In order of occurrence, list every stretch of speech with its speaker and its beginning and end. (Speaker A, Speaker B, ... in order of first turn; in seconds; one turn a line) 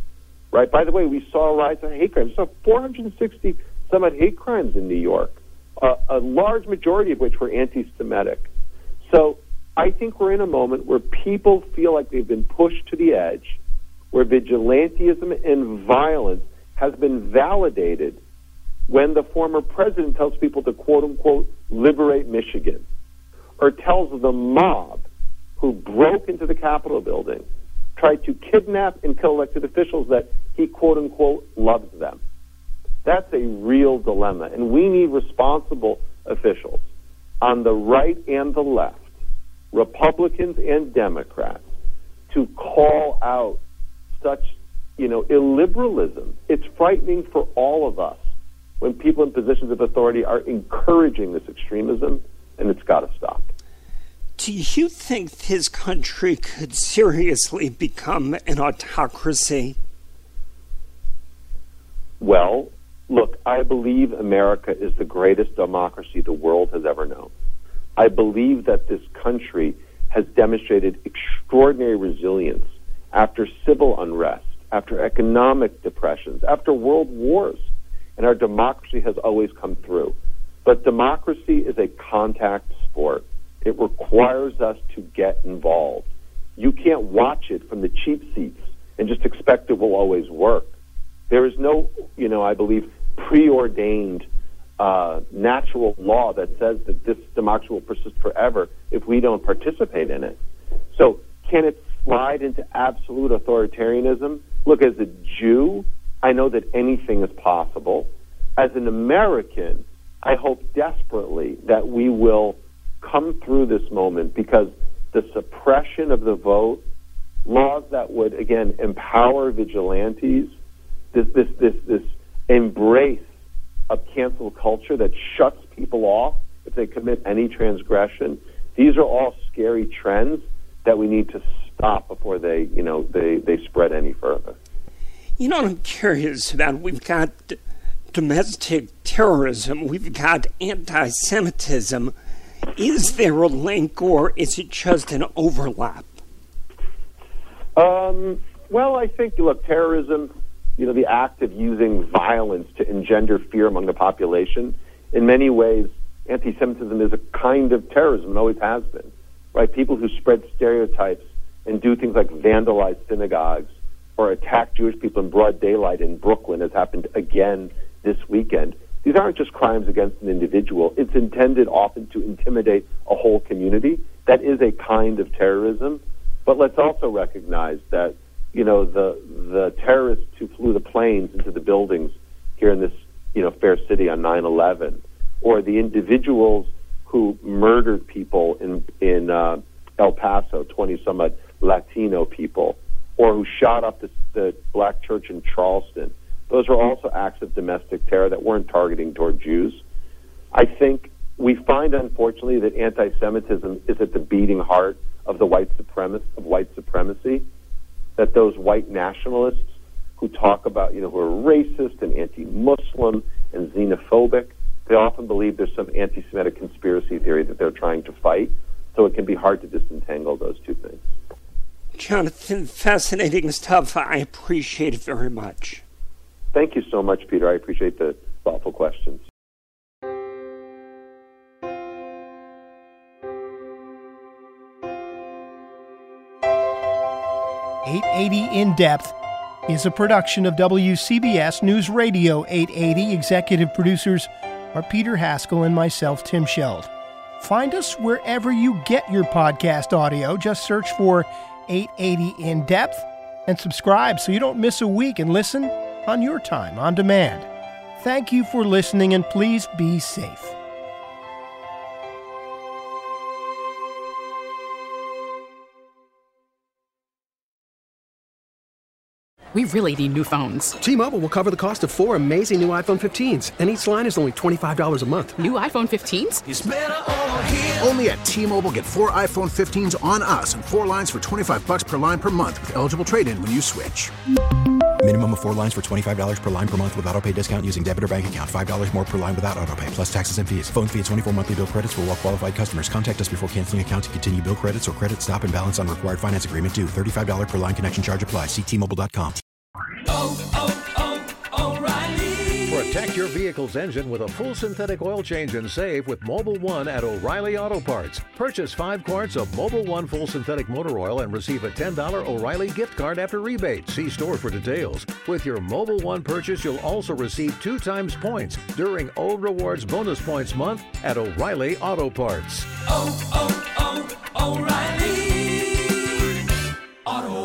Speaker A: 0.5-8.5
Speaker A: 9.1-13.6
Speaker A: 14.1-18.2
Speaker A: 18.9-22.8
Speaker A: 23.6-25.1
Speaker A: 25.6-27.4
Speaker A: 28.0-32.2
Speaker A: 33.0-36.8
Speaker A: 37.4-39.1
Speaker A: 39.7-41.6
Speaker A: 42.3-43.6
Speaker A: 44.2-48.2
Speaker A: 48.8-53.5
Speaker B: 54.4-59.8
Speaker A: 62.2-67.3
Speaker A: 68.0-77.6
Speaker A: 78.2-90.7
Speaker A: 91.3-94.3
Speaker A: 94.8-100.4
Speaker A: 100.9-116.8
Speaker A: 117.5-120.5
Speaker A: 121.1-123.2
Speaker A: 123.9-134.6
Speaker B: 135.4-137.6
Speaker B: 138.1-142.1
Speaker B: 142.8-146.1
Speaker A: 147.8-199.8
Speaker A: 200.5-207.4
Speaker A: 208.2-221.0
Speaker B: 221.9-225.8
Speaker A: 226.5-229.2
Speaker C: 237.8-239.2
Speaker C: 239.7-260.6
Speaker D: 269.5-270.8
Speaker E: 270.8-275.4
Speaker D: 275.4-276.4
Speaker F: 276.8-284.1
Speaker G: 285.0-299.4
Speaker H: 302.7-322.7